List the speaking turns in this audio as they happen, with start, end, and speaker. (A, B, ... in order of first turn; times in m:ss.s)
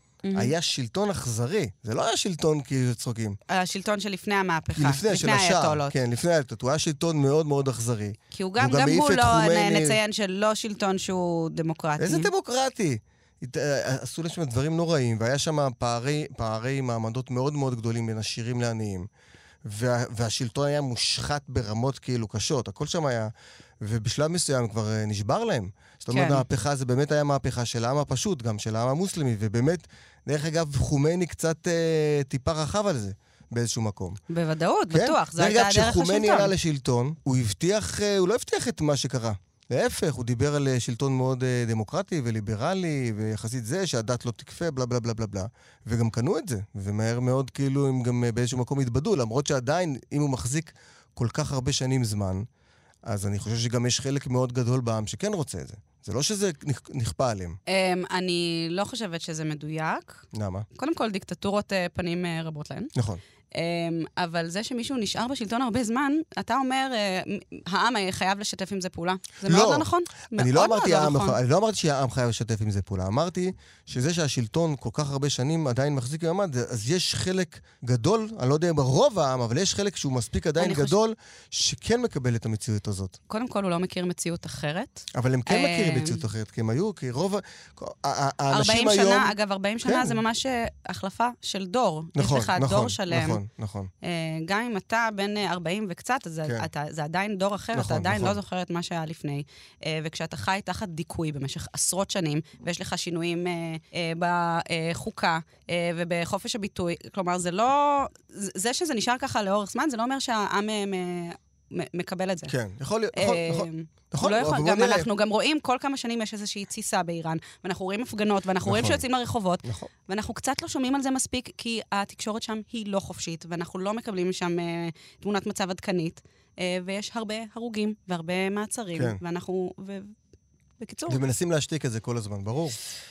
0:00.2-0:00.5 A
0:00.4-0:03.4 B
0:03.5-0:05.9 A
0:04.8-0:10.0 B
0:08.3-0:12.3 A
0:12.0-0:19.1 B
0:19.6-0:34.2 B
0:26.1-0:26.4 A
0:34.3-0:36.5 A
0:34.9-0:52.5 B
0:53.0-0:57.6 B
0:57.7-1:00.2 A
1:00.3-1:00.6 B
1:00.8-1:02.9 A
1:02.9-1:03.2 B
1:03.5-1:11.4 A
1:09.4-1:23.2 B
1:20.6-1:21.0 A
1:23.3-1:26.2 A
1:25.1-1:30.2 B
1:28.5-1:33.4 A
1:32.1-1:33.9 B
1:34.0-1:52.5 A
1:37.7-1:38.4 B
1:52.5-1:55.1 B
1:53.1-2:10.1 A
1:58.6-1:59.0 B
1:59.6-1:59.9 B
2:10.8-2:11.2 A
2:11.1-2:12.8 B